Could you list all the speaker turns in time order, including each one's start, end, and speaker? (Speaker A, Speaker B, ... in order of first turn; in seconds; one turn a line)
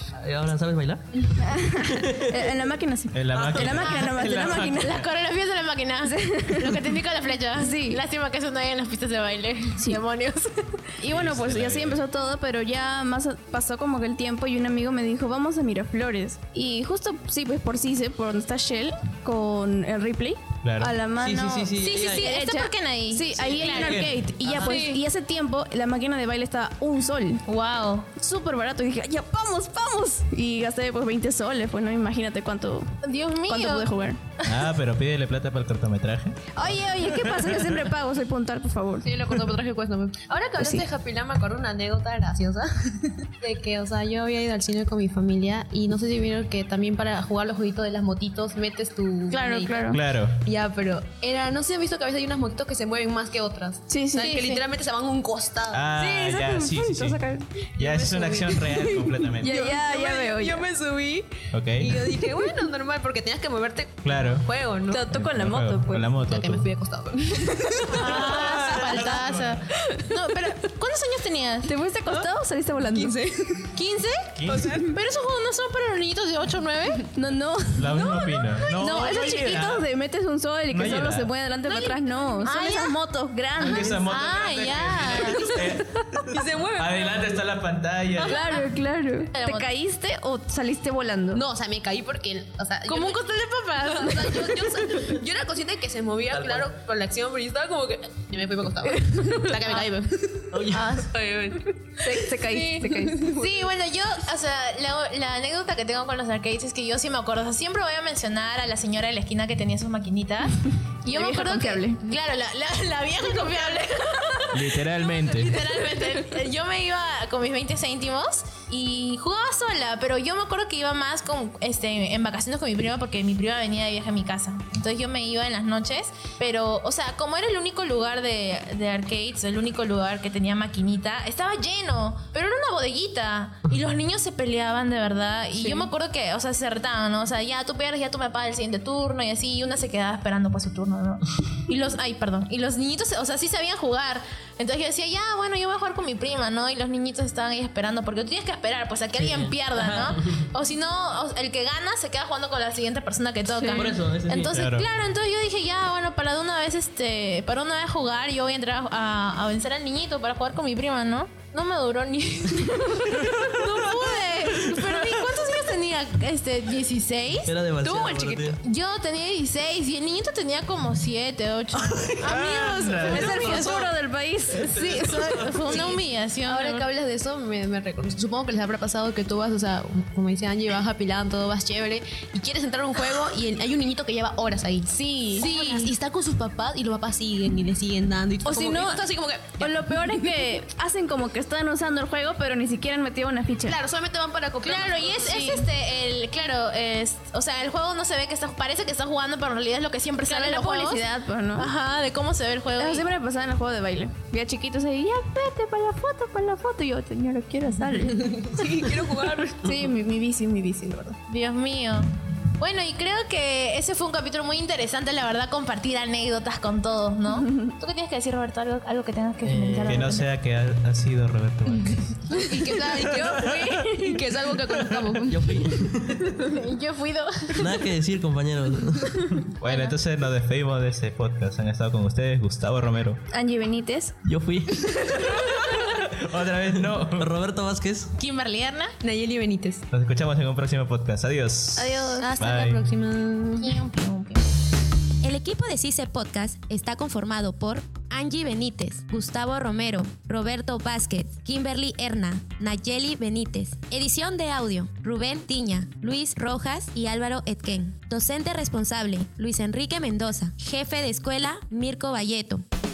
Speaker A: 0.2-2.1
Speaker B: 1.4-5.0
Speaker C: 3.1-5.1
Speaker A: 3.4-3.7
Speaker D: 3.7-10.9
Speaker B: 6.0-6.8
Speaker B: 7.6-8.0
Speaker B: 11.0-27.4
Speaker C: 11.1-12.0
Speaker C: 20.6-20.9
Speaker A: 21.2-22.3
Speaker D: 21.8-25.0
Speaker A: 23.4-24.8
Speaker D: 27.5-28.1
Speaker B: 28.2-32.9
Speaker D: 33.0-33.9
Speaker B: 33.5-34.2
Speaker C: 34.5-37.8
Speaker B: 36.6-39.1
Speaker E: 39.0-55.9
Speaker B: 40.6-40.8
Speaker B: 49.3-50.0
Speaker C: 49.9-50.4
Speaker B: 53.9-54.3
Speaker D: 54.2-54.6
Speaker C: 55.7-57.2
Speaker B: 56.0-57.5
Speaker C: 57.8-59.6
Speaker E: 57.8-65.1
Speaker B: 59.4-60.6
Speaker C: 61.5-62.0
Speaker C: 64.0-64.5
Speaker B: 64.9-66.1
Speaker C: 65.1-66.7
Speaker E: 66.2-69.2
Speaker D: 67.9-72.3
Speaker C: 68.0-69.5
Speaker B: 71.6-73.2
Speaker E: 72.9-73.7
Speaker D: 73.7-74.4
Speaker C: 74.4-74.8
Speaker E: 74.5-74.9
Speaker D: 74.9-77.1
Speaker B: 77.1-84.1
Speaker C: 77.8-79.9
Speaker D: 78.8-79.5
Speaker C: 80.7-81.3
Speaker D: 81.6-83.0
Speaker D: 83.6-85.5
Speaker C: 83.6-88.5
Speaker E: 85.1-85.7
Speaker E: 86.3-87.3
Speaker D: 88.2-88.7
Speaker B: 88.2-91.4
Speaker D: 89.3-89.7
Speaker E: 91.3-93.2
Speaker D: 92.9-94.6
Speaker E: 93.8-102.2
Speaker A: 96.3-96.7
Speaker A: 100.5-101.2
Speaker D: 100.7-101.6
Speaker B: 102.0-103.2
Speaker D: 102.5-173.9
Speaker E: 102.8-103.7
Speaker B: 111.1-112.0
Speaker C: 114.5-115.6
Speaker B: 135.5-135.9
Speaker A: 149.2-150.5
Speaker B: 153.6-153.9
Speaker A: 153.8-154.6
Speaker C: 154.5-154.9
Speaker B: 163.0-164.2
Speaker A: 164.5-164.8
Speaker A: 167.5-168.6
Speaker A: 171.7-172.3
Speaker C: 172.2-173.7
Speaker B: 173.1-175.4
Speaker A: 173.3-173.9
Speaker A: 174.5-176.1
Speaker D: 174.8-176.9
Speaker E: 175.7-190.3
Speaker B: 184.9-185.9
Speaker B: 188.4-189.1
Speaker B: 189.6-193.8
Speaker E: 193.7-195.6
Speaker D: 194.6-201.0
Speaker B: 200.3-201.7
Speaker D: 201.6-203.1
Speaker B: 202.8-208.3
Speaker E: 208.2-209.6
Speaker B: 209.6-211.2
Speaker D: 211.3-220.3
Speaker B: 217.3-217.7
Speaker A: 219.4-220.0
Speaker C: 219.9-222.1
Speaker E: 222.3-225.7
Speaker C: 223.1-223.7
Speaker B: 223.3-224.2
Speaker A: 225.3-226.3
Speaker D: 226.5-227.7
Speaker A: 227.6-229.5
Speaker C: 229.6-233.2
Speaker D: 229.6-230.0
Speaker B: 233.3-234.1
Speaker A: 234.2-235.8
Speaker C: 235.9-237.3
Speaker A: 236.8-238.1
Speaker D: 238.2-238.9
Speaker E: 239.0-239.8
Speaker C: 239.9-242.8
Speaker B: 241.8-242.3
Speaker E: 242.3-243.8
Speaker D: 243.6-244.5
Speaker F: 245.2-262.6